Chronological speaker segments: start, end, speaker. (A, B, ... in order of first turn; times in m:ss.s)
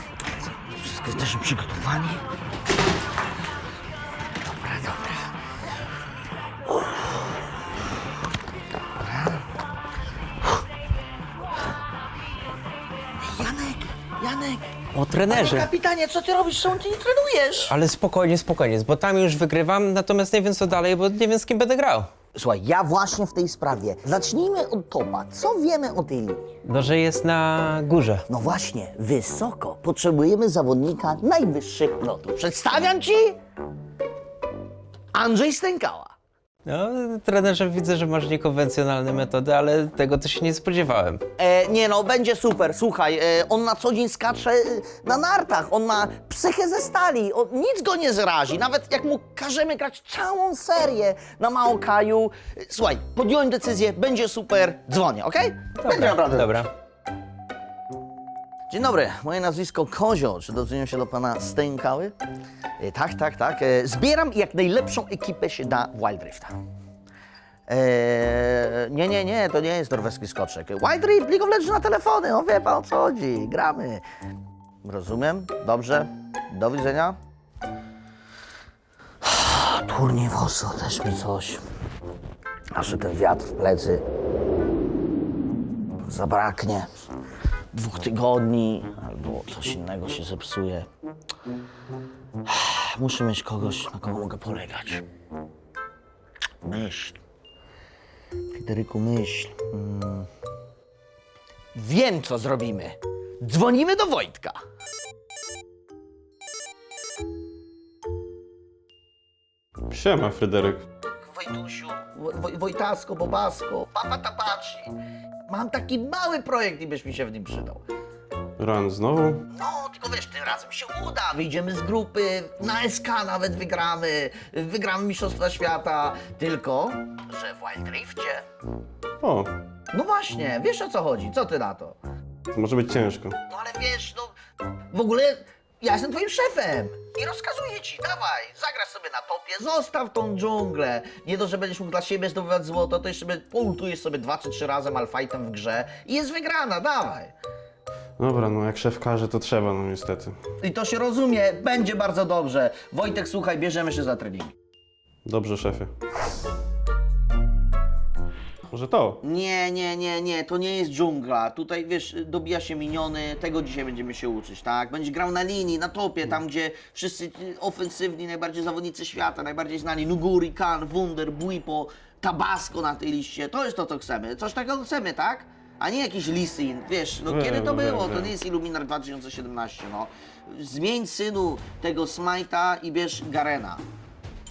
0:00.6-0:02.2 A
0:04.4-0:05.3 A
0:09.0-0:09.4 A
0:13.2-0:17.8 A
0:14.9-0:15.7 B
0:17.7-0:22.1 B
0:22.3-0:26.4 A
0:26.6-0:28.2 B
0:28.3-0:33.4 A
0:35.1-0:36.1 A
0:36.6-0:41.2 B
0:41.4-0:56.6 A
0:55.8-0:56.7 B
0:58.7-1:02.1 A
1:02.8-1:06.5 A
1:07.7-1:14.0 A
1:14.8-1:17.2 A
1:19.2-1:21.6 A
1:22.7-1:24.0 A
1:26.0-1:26.9 A
1:27.7-1:30.9 A
1:32.4-1:35.0 A
1:36.6-1:37.2 A
1:38.5-1:40.3 A
1:41.7-1:44.6 A
1:49.9-1:50.8 C
1:51.2-1:54.9 A
1:55.5-1:57.8 A
1:58.6-1:59.4 C
1:59.5-2:08.4 A
2:09.2-2:09.5 C
2:09.9-2:12.0 A
2:12.5-2:13.4 C
2:13.5-2:14.3 A
2:14.9-2:27.3 A
2:28.2-2:30.3 C
2:30.6-2:34.5 A
2:35.2-2:35.9 C
2:38.7-2:39.2 C
2:39.2-3:03.8 A
2:57.3-2:58.3 C